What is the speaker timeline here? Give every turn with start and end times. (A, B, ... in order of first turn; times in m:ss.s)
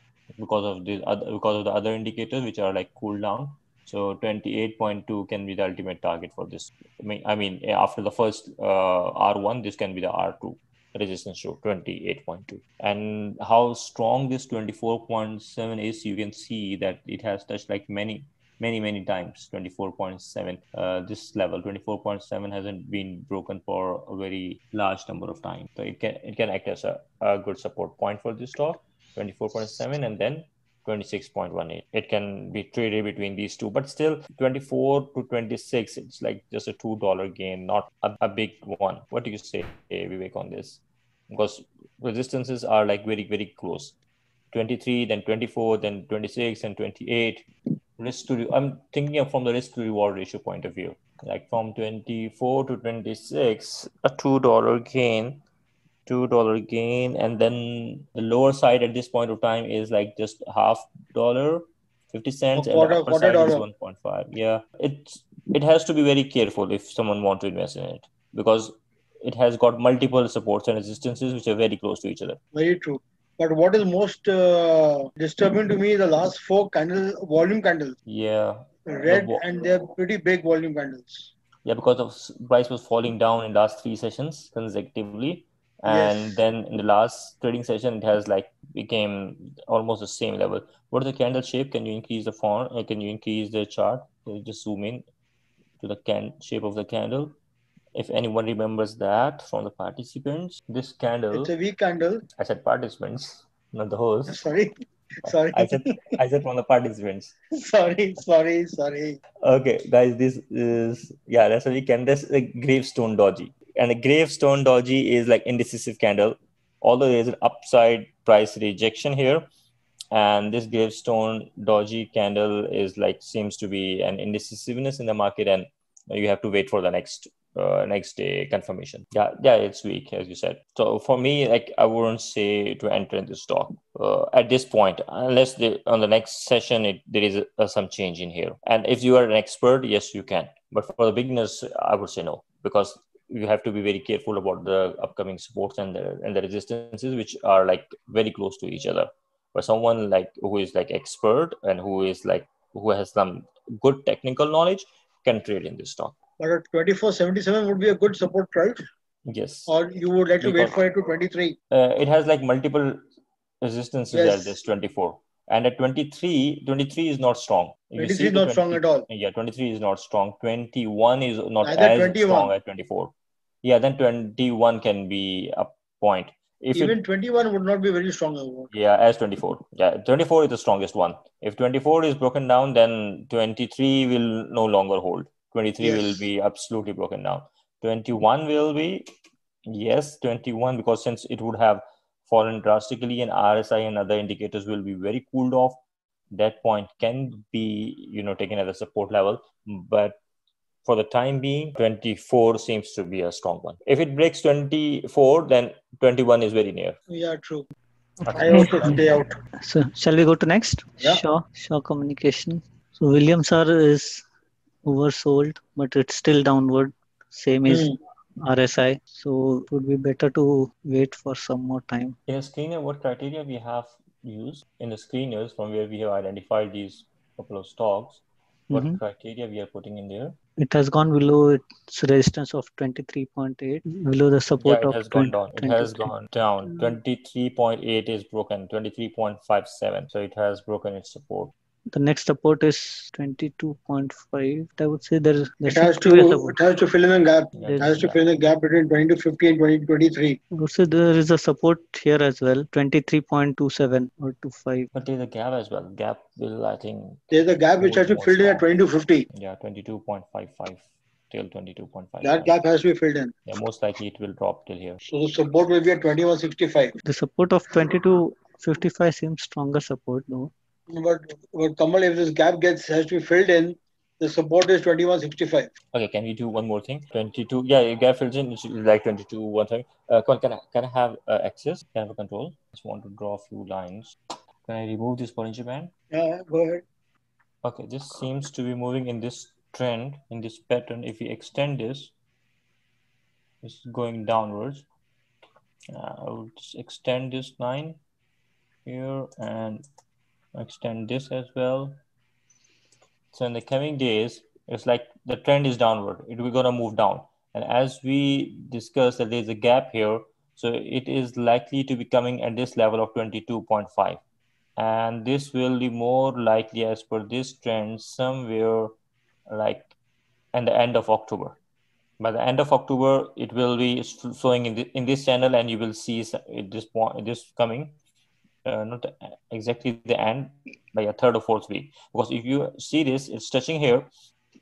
0:00.4-0:43.9 A
0:44.5-0:47.5 A
0:48.0-0:55.4 A
0:56.0-1:12.4 A
1:02.6-1:03.6 B
1:12.5-1:18.0 B
1:18.0-1:19.4 A
1:18.9-1:21.3 B
1:21.6-1:35.0 A
1:25.9-1:26.4 B
1:35.8-1:37.4 A
1:37.9-1:41.5 A
1:41.3-1:42.2 B
1:42.4-1:44.4 A
1:44.3-1:46.2 B
1:45.2-1:47.3 A
1:47.5-1:49.2 B
1:49.4-1:59.5 A
2:00.1-2:36.1 A
2:36.4-2:38.8 B
2:39.2-2:39.7 A
2:39.7-2:41.6 B
2:40.4-2:40.8 A
2:41.7-2:43.0 A
2:43.6-2:57.0 A
2:44.1-2:44.6 B
2:48.0-2:49.1 B
2:51.6-2:52.5 B
2:56.7-2:58.7 B
2:58.7-3:09.1 A
3:05.8-3:06.2 B
3:09.7-3:15.8 A
3:16.3-3:20.2 A
3:20.8-3:27.0 A
3:27.1-3:27.7 B
3:28.2-3:29.0 A
3:28.3-3:29.4 B
3:28.4-3:29.0 C
3:29.6-3:34.2 C
3:34.8-3:42.2 C
3:37.7-3:38.0 B
3:42.3-3:50.4 A
3:48.7-3:49.0 C
3:50.6-3:56.1 C
3:54.6-4:01.5 A
4:01.9-4:06.6 C
4:05.7-4:10.4 B
4:07.5-4:08.2 A
4:07.6-4:08.0 C
4:10.5-4:14.9 C
4:14.9-4:18.7 A
4:17.3-4:19.3 B
4:19.3-4:22.6 A
4:22.2-4:23.3 B
4:23.5-4:25.0 A
4:25.0-4:26.9 B
4:27.0-4:30.5 C
4:30.9-4:35.7 B
4:35.9-4:45.9 A
4:46.1-4:46.8 B
4:47.6-4:52.1 A
4:53.6-4:54.8 A
4:55.9-4:58.0 A
4:58.8-4:59.8 A
5:00.5-5:02.0 A
5:03.3-5:14.2 A
5:14.8-5:18.9 A
5:19.5-5:19.9 A
5:20.5-5:21.6 A
5:22.2-5:28.0 A
5:28.6-5:34.1 A